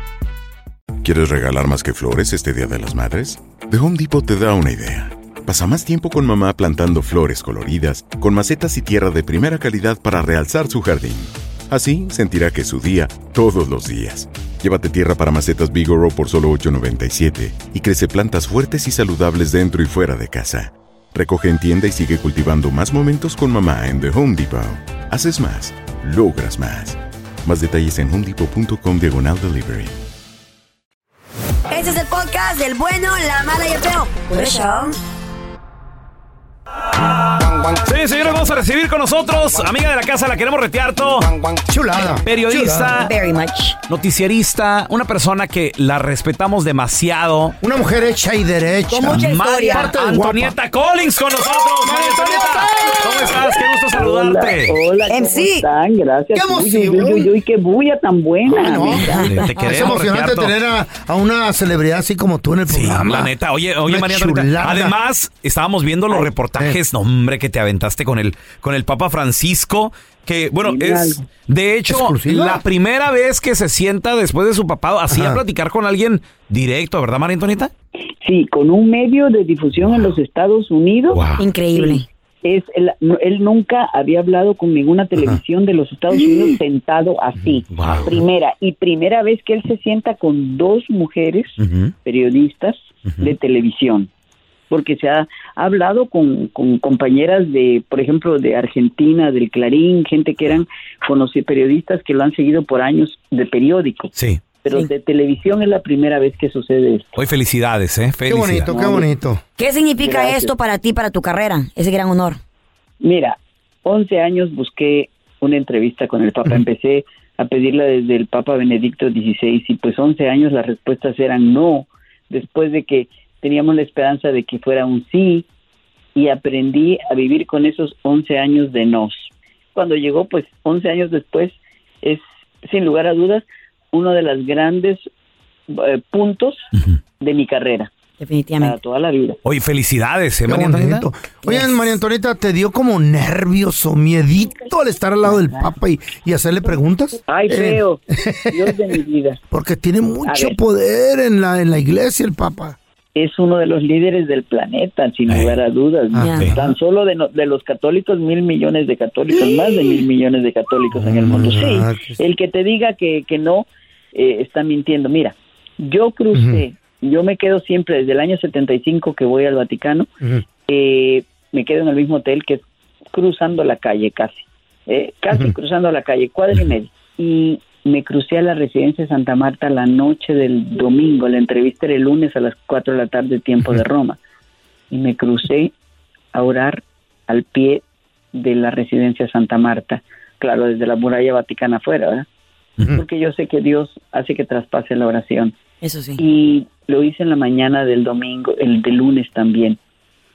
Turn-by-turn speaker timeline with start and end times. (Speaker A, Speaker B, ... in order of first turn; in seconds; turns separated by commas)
Speaker A: 1.0-30.0, Speaker B: 31.7-35.0, Speaker C: 37.8-41.3, Speaker D: 41.7-42.9, Speaker C: 42.2-43.1, Speaker B: 43.0-43.8, Speaker C: 43.9-47.6, Speaker D: 47.6-50.6, Speaker B: 48.9-49.9, Speaker C: 49.0-54.8, Speaker D: 51.8-53.4, Speaker E: 53.9-59.3, Speaker B: 55.1-55.7, Speaker D: 56.3-57.3, Speaker D: 58.5-63.3, Speaker C: 59.2-60.6, Speaker C: 62.7-77.7, Speaker D: 63.9-64.9, Speaker E: 70.6-71.3, Speaker D: 71.9-72.6, Speaker D: 75.1-75.4, Speaker E: 78.2-81.2, Speaker C: 81.1-81.4, Speaker B: 81.4-82.0, Speaker E: 81.7-94.1, Speaker C: 87.7-88.2, Speaker C: 91.6-91.9, Speaker C: 93.1-93.3, Speaker E: 94.7-107.1, Speaker C: 107.2-108.7, Speaker D: 108.3-109.4, Speaker E: 108.7-109.1, Speaker B: 109.6-112.4, Speaker E: 110.0-110.5, Speaker E: 113.0-125.5, Speaker E: 126.2-135.1, Speaker E: 135.7-136.7, Speaker E: 137.2-137.9, Speaker B: 138.2-138.8, Speaker E: 138.6-139.4, Speaker C: 139.4-141.1, Speaker D: 140.5-148.8, Speaker E: 144.5-144.7, Speaker E: 145.2-145.7, Speaker E: 147.2-149.4, Speaker D: 149.5-152.8, Speaker E: 150.2-150.6, Speaker E: 153.2-170.1, Speaker C: 155.3-155.6, Speaker D: 156.2-156.7, Speaker B: 156.2-156.5, Speaker D: 159.3-160.0, Speaker D: 160.9-162.2, Speaker D: 166.3-166.6, Speaker E: 170.7-184.2, Speaker E: 184.9-185.7, Speaker E: 186.3-192.3, Speaker E: 192.9-195.6, Speaker B: 195.8-196.2, Speaker E: 196.2-199.8